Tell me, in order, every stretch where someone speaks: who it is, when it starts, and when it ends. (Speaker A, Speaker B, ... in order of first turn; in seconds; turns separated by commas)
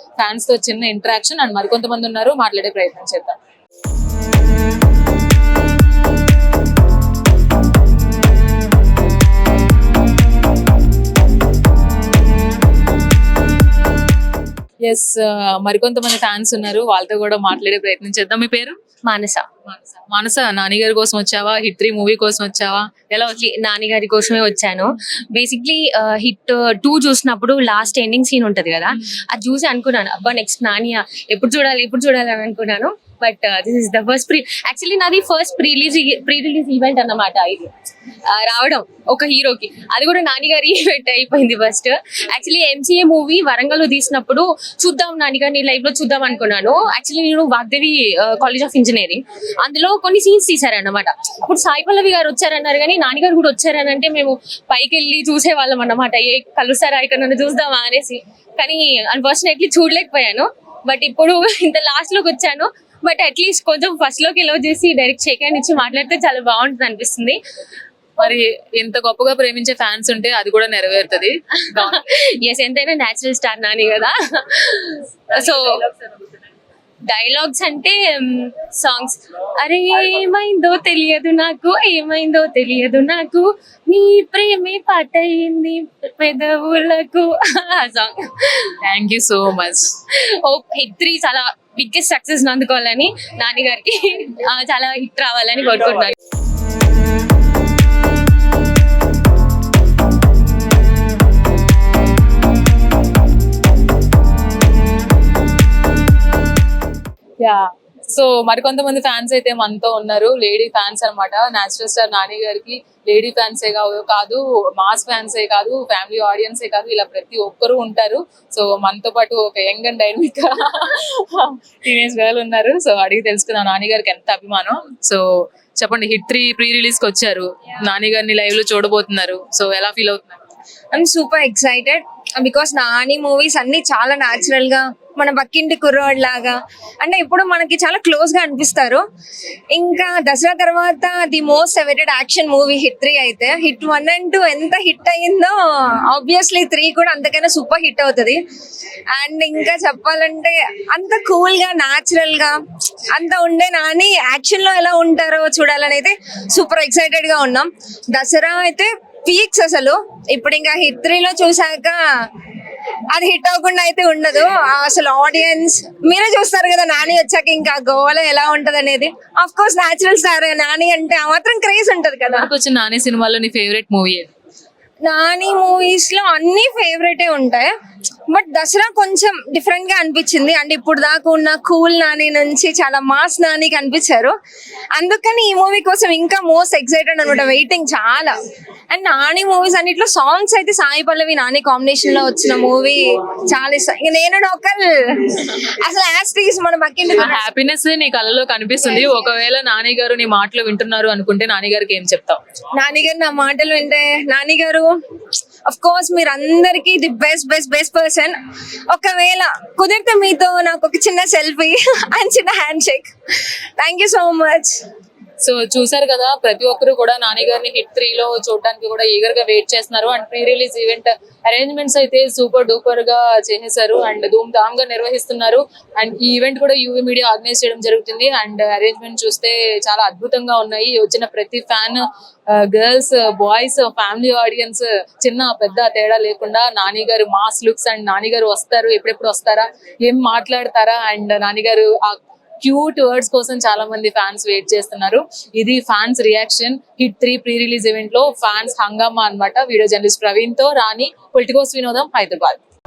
Speaker A: 0.2-3.4, Speaker A: 14.8-18.8, Speaker B: 19.1-19.5, Speaker A: 19.7-23.4, Speaker B: 23.4-37.7, Speaker B: 38.3-67.4, Speaker A: 68.2-72.0, Speaker B: 71.8-75.8, Speaker A: 75.3-75.9, Speaker B: 77.1-88.6, Speaker A: 88.8-89.9, Speaker B: 90.1-96.1, Speaker A: 107.4-125.2, Speaker A: 125.8-130.4, Speaker C: 130.9-139.0, Speaker C: 139.7-145.6, Speaker C: 146.1-148.4, Speaker C: 149.1-162.0, Speaker C: 163.1-172.5, Speaker A: 172.3-174.3, Speaker C: 175.0-177.7, Speaker C: 178.3-184.3, Speaker C: 184.9-188.3, Speaker C: 188.9-197.4, Speaker A: 197.2-202.4, Speaker C: 202.7-204.9, Speaker C: 205.7-208.3, Speaker C: 208.9-213.1, Speaker C: 213.8-214.7, Speaker A: 215.4-232.0, Speaker A: 232.7-252.6